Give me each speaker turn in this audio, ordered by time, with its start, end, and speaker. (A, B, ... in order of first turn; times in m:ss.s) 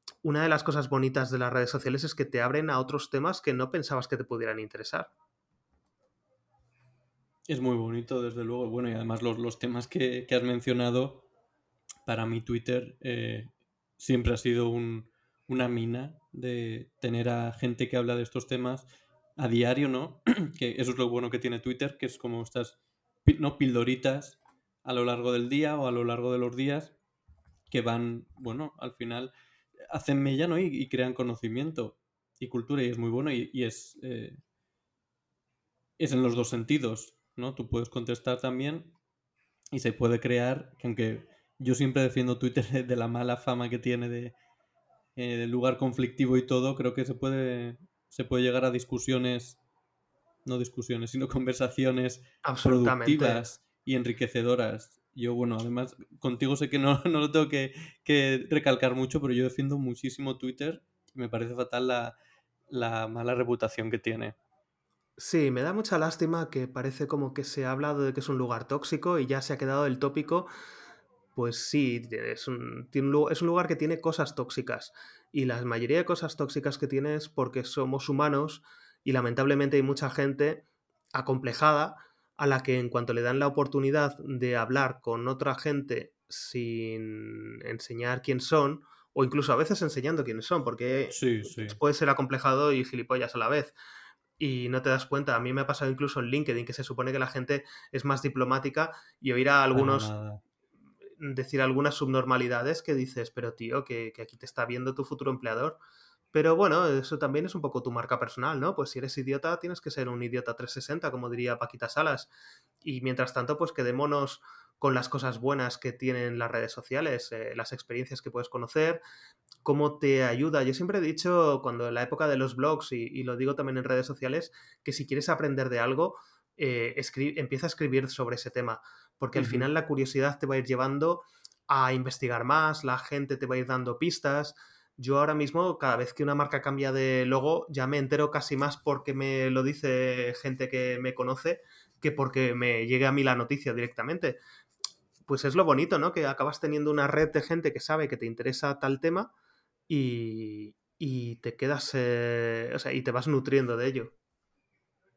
0:00.2-0:05.1 A
0:07.5-0:11.2 B
0:12.0-0:26.9 B
0:27.7-0:29.3 B
0:29.9-0:34.4 B
0:36.0-0:38.9 B
0:39.7-0:44.4 B
0:45.2-0:49.6 B
0:50.4-1:02.1 B
0:52.4-0:53.4 A
1:02.7-1:04.4 B
1:05.2-1:10.5 A
1:11.3-1:20.6 A
1:21.1-1:33.7 A
1:31.1-1:31.8 B
1:34.4-1:40.1 A
1:39.7-1:40.4 B
1:41.2-1:45.8 A
1:46.3-1:52.3 A
1:52.8-1:59.0 A
1:59.6-2:24.4 A
2:09.4-2:09.7 B
2:25.3-2:29.3 A
2:29.9-2:34.1 A